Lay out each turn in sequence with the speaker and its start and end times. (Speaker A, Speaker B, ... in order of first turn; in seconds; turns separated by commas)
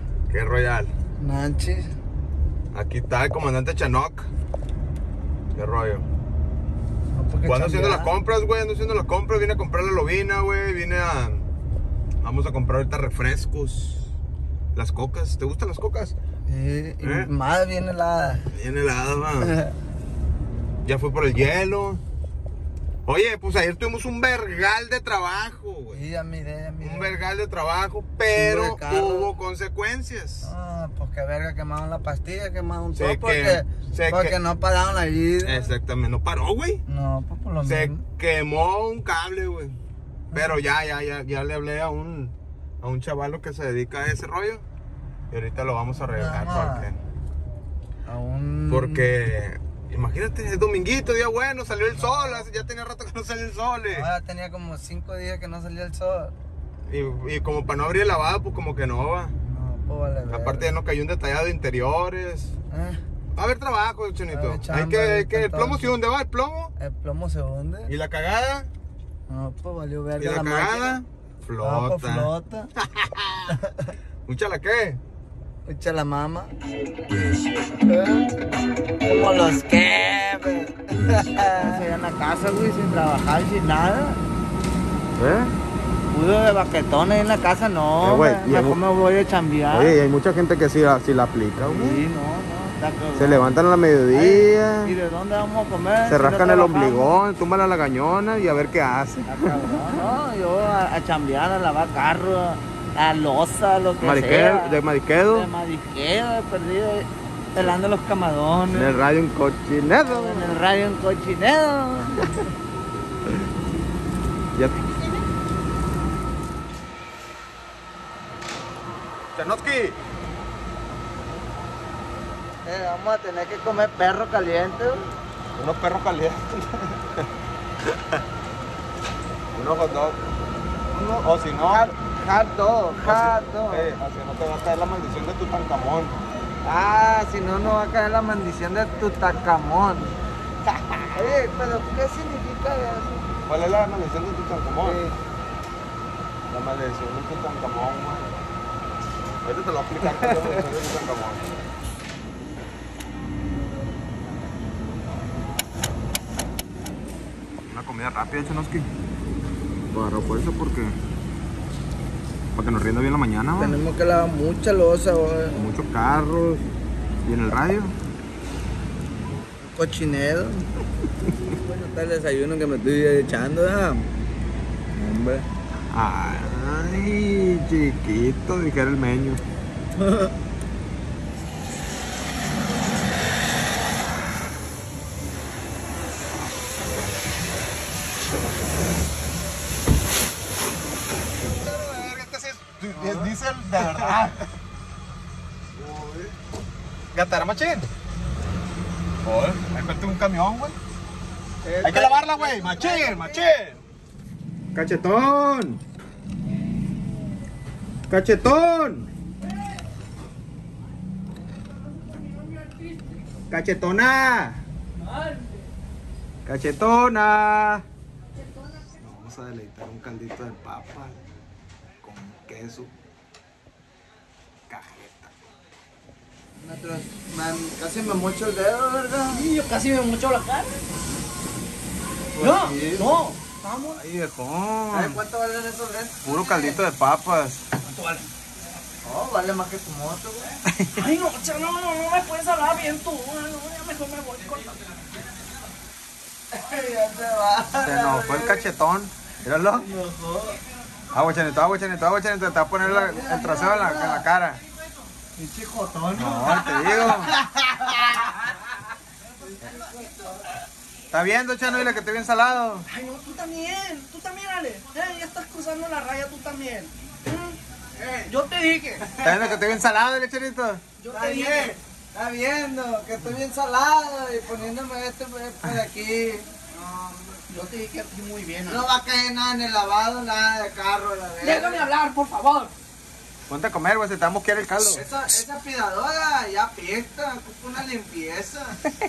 Speaker A: 0.3-0.9, Speaker B: 1.2-1.9, Speaker A: 2.7-4.3, Speaker A: 5.5-6.1, Speaker B: 7.2-8.1, Speaker A: 7.4-11.5, Speaker A: 12.2-14.1, Speaker A: 14.7-16.1, Speaker B: 16.5-18.5, Speaker A: 17.0-17.3, Speaker A: 18.5-19.6, Speaker B: 19.4-19.7, Speaker A: 20.9-22.0, Speaker A: 23.1-26.0, Speaker B: 25.9-27.2, Speaker A: 26.8-30.5, Speaker B: 28.3-29.4, Speaker B: 30.4-35.6, Speaker A: 33.0-34.4, Speaker A: 35.4-36.8, Speaker B: 36.9-38.0, Speaker A: 37.6-39.8, Speaker A: 40.3-44.6, Speaker A: 45.3-47.0, Speaker B: 46.1-46.9, Speaker B: 48.1-49.1, Speaker A: 48.7-54.1, Speaker B: 52.0-52.5, Speaker B: 53.9-56.3, Speaker A: 56.9-59.4, Speaker B: 59.4-60.8, Speaker A: 60.3-62.5, Speaker B: 62.7-63.0, Speaker A: 63.4-66.7, Speaker B: 64.3-66.0, Speaker B: 66.8-67.9, Speaker A: 67.9-68.7, Speaker B: 69.3-71.0, Speaker A: 70.2-72.3, Speaker B: 71.6-72.7, Speaker A: 72.9-73.5, Speaker B: 73.5-73.9, Speaker A: 74.3-75.0, Speaker B: 75.7-76.5, Speaker B: 77.9-78.3, Speaker B: 79.0-84.2, Speaker A: 85.2-85.5, Speaker B: 86.1-90.0, Speaker A: 88.0-88.8, Speaker A: 89.7-92.0, Speaker B: 91.6-93.5, Speaker A: 93.2-95.0, Speaker B: 94.1-97.1, Speaker A: 96.1-99.7, Speaker B: 99.3-109.0, Speaker A: 104.0-105.5, Speaker A: 108.7-110.5, Speaker B: 110.0-112.3, Speaker A: 114.5-114.9, Speaker A: 119.3-120.0, Speaker B: 122.6-125.1, Speaker A: 125.6-127.3, Speaker A: 129.6-130.2, Speaker A: 130.9-131.9, Speaker B: 131.7-133.9, Speaker A: 133.0-136.2, Speaker B: 136.6-140.2, Speaker B: 141.1-143.3, Speaker A: 143.5-145.0, Speaker B: 144.8-145.2, Speaker A: 146.5-148.3, Speaker A: 149.4-151.5, Speaker A: 157.7-158.9, Speaker A: 159.9-161.0, Speaker A: 162.5-163.8, Speaker B: 163.6-165.6, Speaker A: 165.6-166.7, Speaker A: 167.2-167.9, Speaker B: 169.6-170.7, Speaker B: 171.5-174.1, Speaker B: 174.9-175.5, Speaker A: 175.9-179.4, Speaker B: 180.0-180.3, Speaker A: 191.4-194.5, Speaker B: 192.9-193.3, Speaker B: 195.9-196.1, Speaker A: 197.1-197.9, Speaker A: 199.2-200.8, Speaker B: 201.6-203.5, Speaker A: 201.8-203.8, Speaker A: 204.7-205.8, Speaker A: 208.1-209.1, Speaker A: 213.5-214.6, Speaker A: 216.4-217.8, Speaker A: 219.0-221.2, Speaker A: 222.0-222.9, Speaker A: 224.7-225.3, Speaker B: 226.6-229.5, Speaker C: 229.3-230.8, Speaker C: 232.4-234.0, Speaker B: 232.4-233.1, Speaker A: 233.9-235.2, Speaker B: 234.9-236.2, Speaker A: 236.2-237.6, Speaker C: 236.3-236.8, Speaker C: 237.8-238.3, Speaker B: 239.0-240.6, Speaker C: 240.9-245.0, Speaker B: 246.5-248.7, Speaker A: 247.8-249.9, Speaker B: 249.8-250.6, Speaker A: 251.1-254.6, Speaker B: 252.8-254.3, Speaker B: 255.4-258.2, Speaker A: 256.1-257.3, Speaker A: 261.1-262.9, Speaker C: 262.9-267.5, Speaker C: 268.1-269.1, Speaker A: 269.2-270.8, Speaker B: 269.2-269.6, Speaker C: 271.0-271.8, Speaker B: 271.1-277.1, Speaker C: 277.5-278.8, Speaker B: 278.7-281.9, Speaker C: 281.4-282.7, Speaker A: 283.5-285.1, Speaker B: 284.9-288.9